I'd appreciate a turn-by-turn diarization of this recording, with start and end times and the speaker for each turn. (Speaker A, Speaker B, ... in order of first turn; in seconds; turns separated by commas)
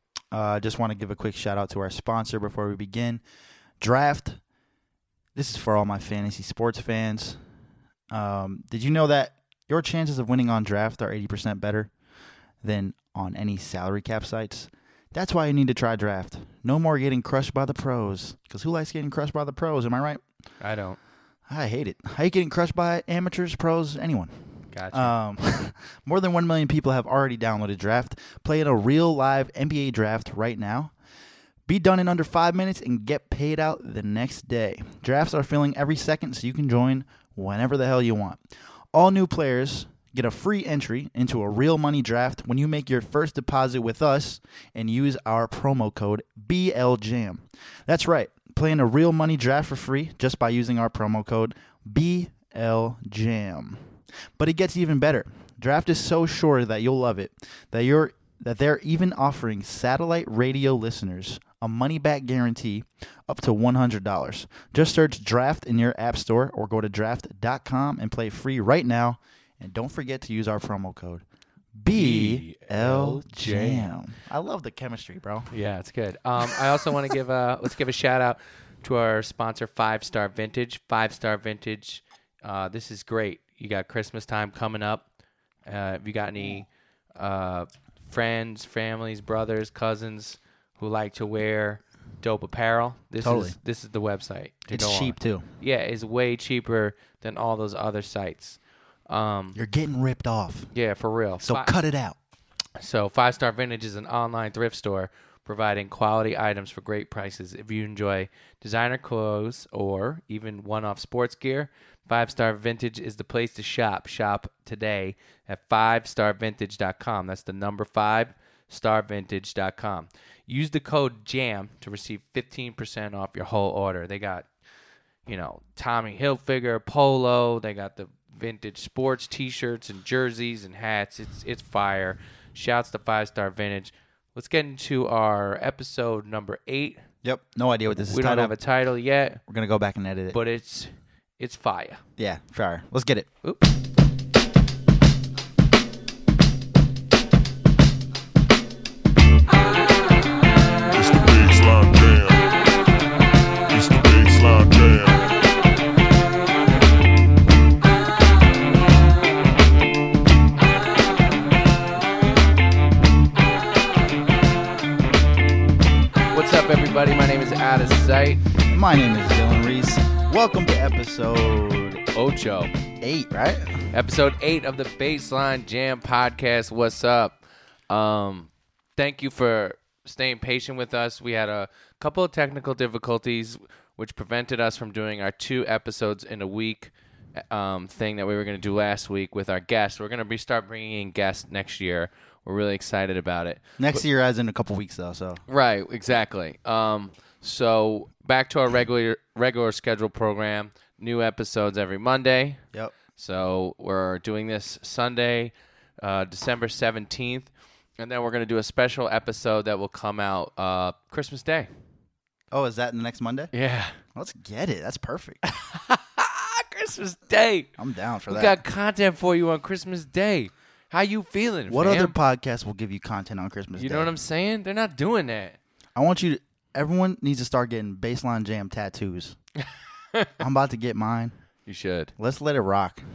Speaker A: 0.3-3.2, Speaker A: 3.8-4.4, Speaker A: 5.3-7.4, Speaker A: 8.1-11.9, Speaker A: 12.6-20.2, Speaker B: 20.6-21.0, Speaker A: 21.5-30.9, Speaker B: 24.7-25.1, Speaker A: 31.7-38.4, Speaker A: 38.9-71.2, Speaker A: 71.8-75.5, Speaker B: 71.9-74.0, Speaker B: 75.5-85.0, Speaker B: 85.6-99.6, Speaker A: 93.2-93.6, Speaker A: 94.7-95.5, Speaker A: 99.5-100.7, Speaker B: 100.7-101.8, Speaker A: 101.4-102.2, Speaker B: 102.8-124.5, Speaker B: 125.2-137.0, Speaker A: 137.2-138.5, Speaker B: 138.0-139.4, Speaker A: 139.5-140.4, Speaker B: 140.3-142.0, Speaker A: 142.2-143.3, Speaker B: 143.4-143.7, Speaker C: 150.9-152.5, Speaker C: 153.7-155.3, Speaker B: 166.3-168.4, Speaker A: 168.7-172.0, Speaker B: 172.1-172.7, Speaker A: 173.0-173.9, Speaker B: 173.9-194.0, Speaker A: 193.8-195.4, Speaker B: 195.5-202.6, Speaker B: 203.2-211.7, Speaker A: 212.5-213.5, Speaker B: 213.5-214.0, Speaker A: 214.1-215.4, Speaker B: 215.4-217.8, Speaker A: 217.8-218.6, Speaker B: 218.3-222.1, Speaker A: 221.7-224.1, Speaker B: 223.8-225.6, Speaker A: 225.9-229.4, Speaker B: 230.1-230.4, Speaker A: 230.4-231.3, Speaker B: 231.7-232.1, Speaker A: 232.2-233.0